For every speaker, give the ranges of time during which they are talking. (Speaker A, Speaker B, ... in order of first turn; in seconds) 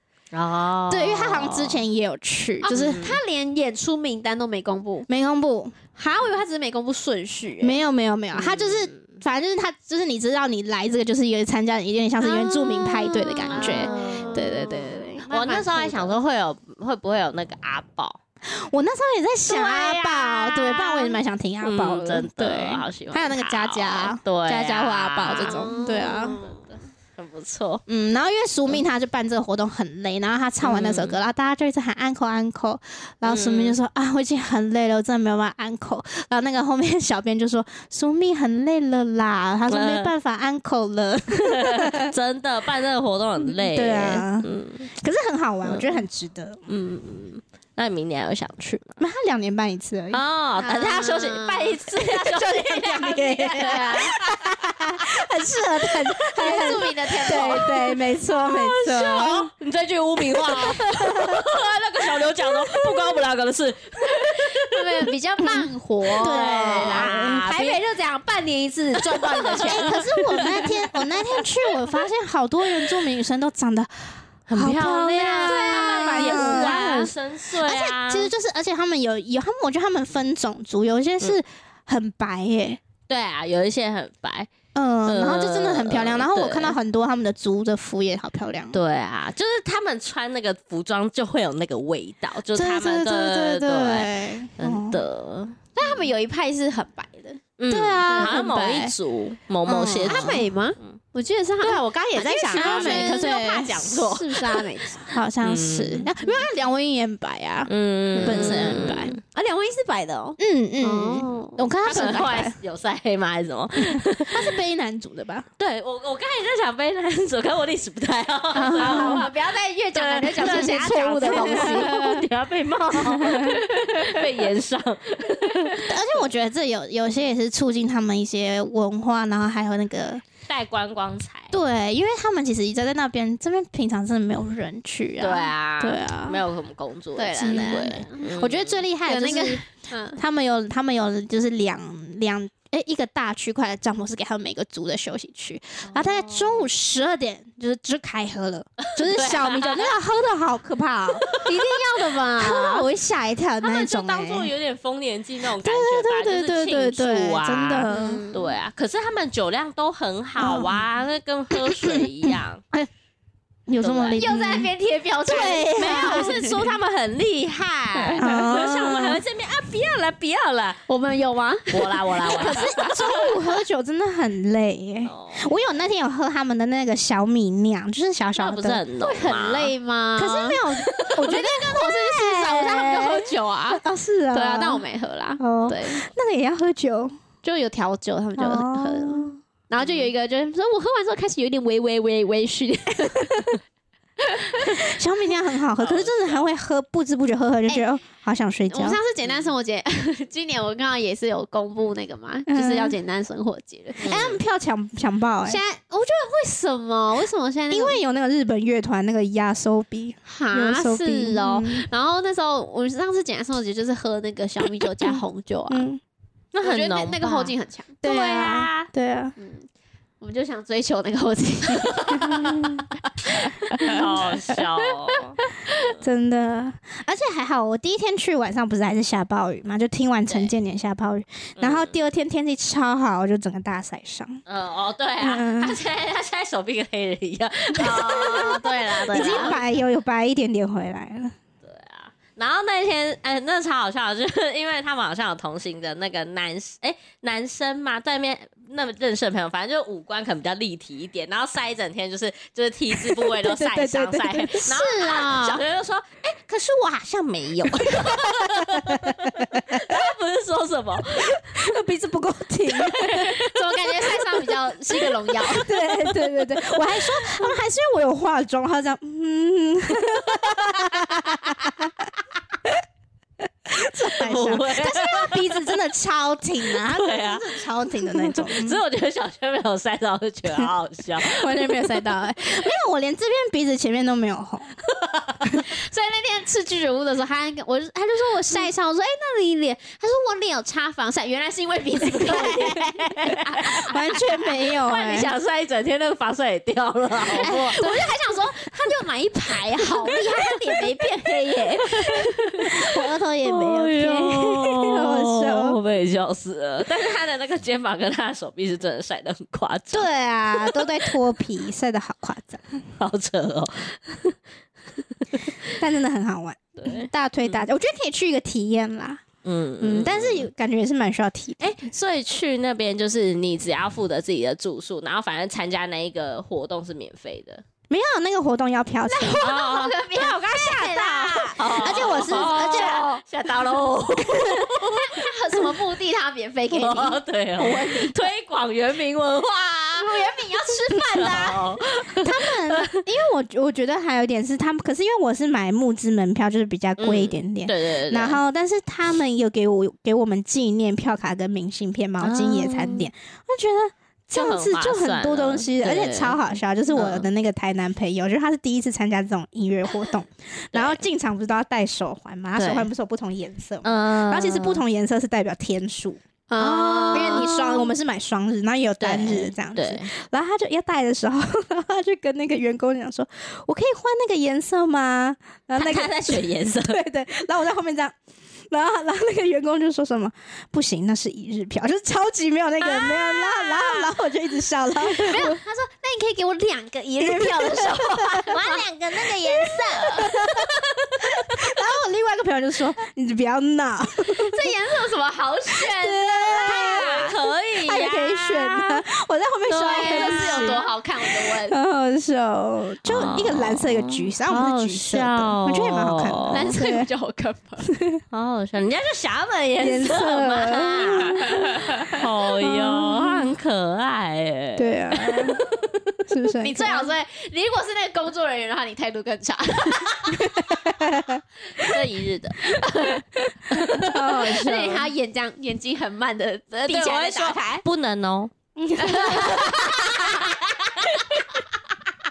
Speaker A: 0.3-1.8, 2.7-3.2, 8.3-9.0, 13.5-18.2, 19.5-27.8, 30.6-31.1, 33.2-33.8, 39.7-40.1, 41.4-44.9, 45.6-46.0, 46.7-49.0, 50.1-55.1, 55.9-56.7, 57.2-65.1, 66.1-67.8, 69.0-70.7, 74.5-78.3, 83.1-84.5, 85.0-86.8, 88.7-96.1, 97.6-101.0, 101.7-104.7, 105.4-106.1, 107.7-109.2, 111.8-114.5, 115.6-119.4, 119.9-126.2, 130.5-131.6, 135.2-138.8, 145.9-146.7, 149.0-149.9, 153.6-162.6, 163.8-164.2, 165.7-170.8, 171.7-173.2, 175.1-175.5, 178.3-179.7, 189.8-190.1, 195.8-196.4, 199.2-199.5, 204.0-204.4, 216.5-218.9, 222.0-222.8, 223.3-225.4, 231.6-231.9, 234.4-239.6, 241.6-261.8, 262.7-264.2, 265.0-267.5, 270.0-271.3, 274.1-275.8, 276.7-281.9, 284.9-285.4, 292.0-293.9, 294.8-298.1, 300.1-300.8, 301.8-311.1, 313.0-314.4, 314.9-315.7, 316.8-317.6, 319.4-320.5, 321.6-327.6, 329.4-335.3, 336.7-340.2, 341.1-342.9, 347.0-348.4, 352.2-353.1, 354.3-356.4, 356.9-357.3, 360.7-361.0, 362.6-362.9, 363.8-364.8, 366.6-367.5, 369.0-370.1, 375.8-377.0, 382.8-384.1, 388.5-390.3, 391.2-391.5, 396.6-399.0, 399.7-400.9, 403.0-406.8, 408.3-416.1, 421.8-422.8, 423.7-424.2, 426.9-428.5, 429.3-431.4
Speaker B: 0.9-3.0, 5.1-5.8, 7.6-15.2, 18.5-26.4, 27.9-42.1, 43.5-46.6, 49.0-51.0, 52.0-59.5, 60.4-61.4, 62.2-63.2, 66.2-67.5, 69.5-82.8, 84.7-88.8, 92.5-95.0, 97.7-98.9, 99.6-100.4, 101.6-103.7, 105.1-109.2, 110.4-112.6, 113.8-115.5, 118.5-119.2, 120.4-122.0, 123.0-123.6, 125.8-130.2, 131.5-136.4, 137.4-139.6, 140.2-151.5, 152.4-154.5, 155.6-158.2, 160.4-160.8, 161.8-162.9, 163.7-164.7, 165.2-166.4, 168.1-169.2, 172.3-178.8, 180.2-184.8, 185.4-187.1, 188.4-189.3, 194.7-199.0, 202.5-203.0, 204.0-205.6, 207.7-211.9, 215.7-216.0, 218.0-219.3, 222.2-222.8, 223.8-224.0, 226.0-234.4, 235.2-235.8, 237.7-241.3, 252.9-254.8, 257.8-260.0, 261.2-263.4, 265.5-272.0, 273.6-278.8, 281.2-284.8, 293.9-295.3, 302.6-305.8, 309.9-312.7, 315.7-319.2, 319.8-321.8, 327.9-329.4, 331.8-333.0, 334.3-334.6, 340.9-341.6, 342.1-366.2, 367.1-378.1, 378.7-385.6, 387.2-388.8, 389.4-390.7, 391.2-394.7, 395.7-407.1, 407.8-408.2, 409.8-413.4, 414.8-415.6, 416.3-417.1, 420.3-421.9, 423.7-425.1, 428.8-430.2
Speaker C: 2.6-5.1, 6.0-7.8, 12.2-16.1, 25.4-26.7, 50.6-51.9, 53.6-54.1, 56.4-57.8, 64.2-70.1, 75.2-77.0, 95.8-97.4, 98.1-98.8, 100.0-105.1, 108.2-112.2, 118.6-122.2, 137.2-138.3, 139.1-140.2, 151.4-152.8, 157.9-158.6, 164.2-166.6, 170.9-172.6, 179.0-180.6, 181.2-186.1, 187.4-193.6, 194.2-194.8, 198.7-204.1, 205.4-208.0, 210.3-215.9, 216.6-218.0, 219.4-219.7, 220.2-222.6, 223.7-224.1, 224.8-225.2, 238.4-239.6, 254.6-255.6, 263.3-265.7, 285.6-294.3, 297.2-302.2, 329.1-333.2, 334.9-338.2, 339.9-341.6, 366.5-367.9, 385.1-390.3, 394.3-397.3, 399.8-401.8, 406.5-407.9, 416.6-420.8, 422.7-423.2, 424.4-427.8, 429.0-431.4